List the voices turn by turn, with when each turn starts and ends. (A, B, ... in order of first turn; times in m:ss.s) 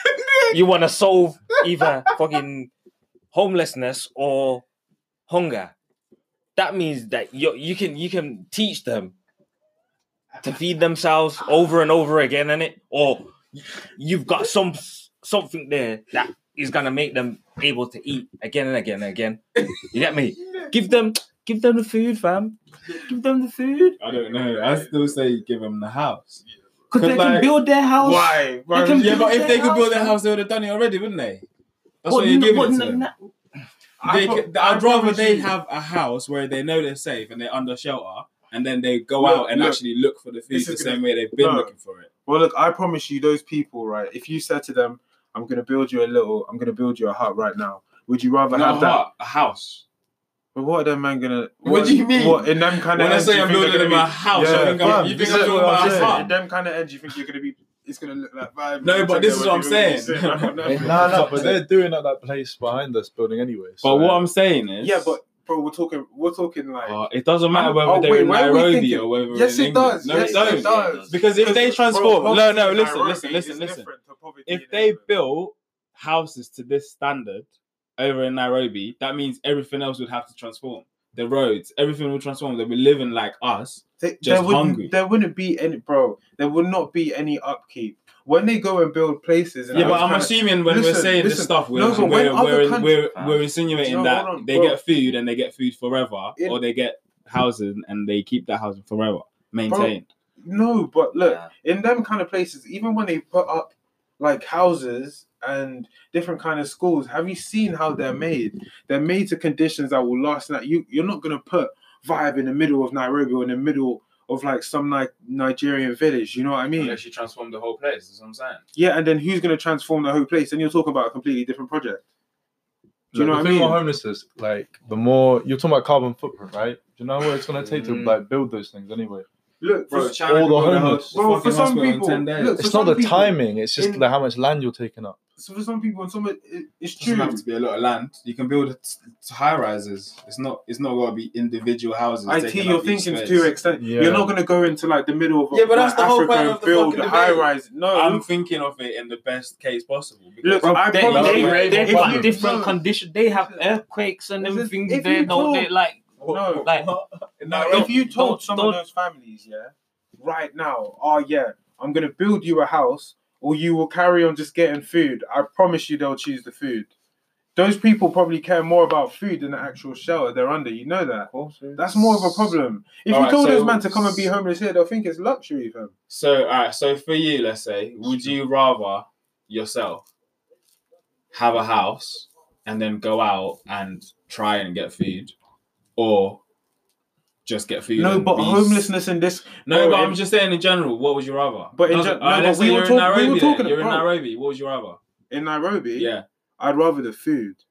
0:00.5-0:02.7 A
0:03.3-0:04.6 A
0:05.3-0:05.7 A
0:06.6-0:09.1 A
0:10.4-0:24.0 A
0:24.0-0:27.5 B
0:24.0-0:25.2 C
0:26.9-0:30.2 A
0:28.0-0:29.7 C
0:28.9-0:31.4 B
0:32.0-0:33.0 B
0:32.0-0:33.3 A
0:34.0-0:35.5 C
0:34.0-0:42.1 B
0:39.2-0:39.8 C
0:40.5-0:41.7 C
0:42.2-0:49.0 C
0:48.5-0:49.8 B
0:50.5-1:01.5 C
0:51.6-0:56.3 B
0:54.3-0:56.3 D
0:58.8-1:01.6 B
1:00.8-1:04.2 D
1:03.8-1:05.1 B
1:04.8-1:15.1 C
1:06.8-1:13.9 B
1:10.1-1:12.0 A
1:14.4-1:24.9 B
1:24.0-1:33.0 C
1:29.7-1:30.1 A
1:29.7-1:40.0 B
1:33.1-1:33.4 A
1:33.8-1:34.8 C
1:39.7-1:57.0 C
1:41.2-1:41.5 A
1:56.8-1:58.6 B
1:58.7-2:02.0 C
2:03.1-2:03.8 C
2:03.1-2:09.3 D
2:09.6-2:14.0 C
2:09.9-2:12.6 B
2:10.2-2:11.1 D
2:12.6-2:15.2 D
2:15.4-2:17.4 C
2:17.0-2:23.5 B
2:22.2-2:28.2 C
2:23.8-2:24.3 D
2:25.5-2:32.3 B
2:30.4-2:33.8 C
2:30.6-2:36.9 A
2:31.1-2:32.4 D
2:34.4-2:35.7 C
2:36.2-2:38.1 B
2:36.2-2:36.7 C
2:37.5-2:46.9 C
2:37.5-2:38.8 A
2:47.6-2:55.9 C
2:51.6-2:52.5 B
2:53.1-2:54.3 B
2:56.1-3:00.1 B
3:01.3-3:05.3 B
3:06.0-3:06.4 B
3:07.4-3:08.9 B
3:08.0-3:10.2 C
3:09.7-3:15.0 B
3:11.7-3:14.1 C
3:15.3-3:17.6 C
3:16.0-3:16.2 B